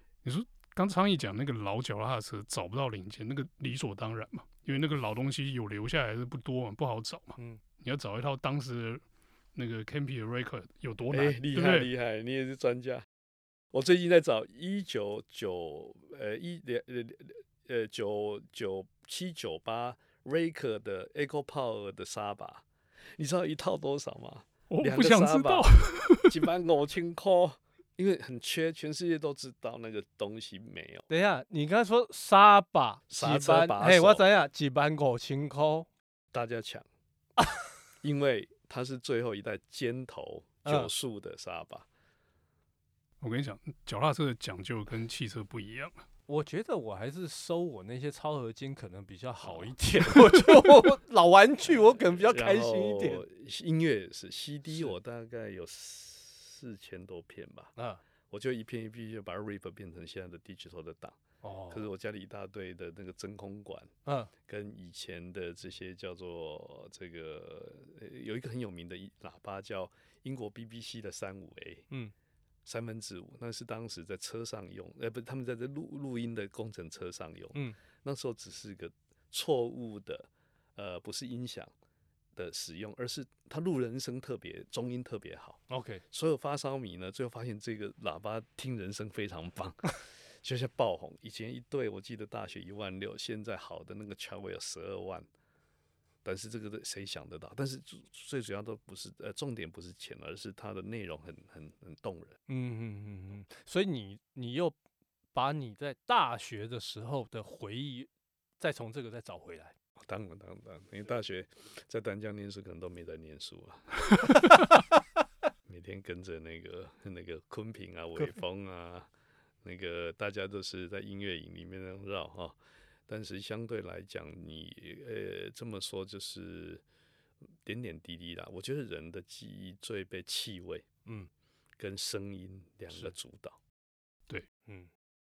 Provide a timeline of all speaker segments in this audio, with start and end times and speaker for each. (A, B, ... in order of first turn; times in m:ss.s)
0:00.2-0:09.0 A
0:09.5-0:11.9 A
0:11.1-0:13.0 B
0:13.7-0:22.6 B
0:23.2-0:31.1 B
0:24.7-0:26.4 A
0:31.1-0:35.9 C
0:33.1-0:34.3 B
0:36.3-0:36.8 B
0:38.0-0:41.9 B
0:40.6-0:40.9 C
0:43.2-0:46.0 A
0:46.3-0:53.2 C
0:49.4-0:50.8 B
0:52.0-0:57.7 B
0:57.8-0:58.0 C
0:58.3-1:01.2 B
1:01.4-1:01.9 C
1:01.7-1:03.9 B
1:04.0-1:04.3 C
1:04.4-1:11.9 B
1:12.6-1:21.7 B
1:22.3-1:35.3 B
1:25.7-1:26.0 C
1:36.2-1:42.4 B
1:42.5-1:44.8 C
1:45.3-1:49.7 C
1:50.1-1:54.6 B
1:55.7-1:59.1 B
1:59.6-2:06.8 B
2:07.6-2:10.9 B
2:11.8-2:13.6 B
2:14.6-2:14.9 C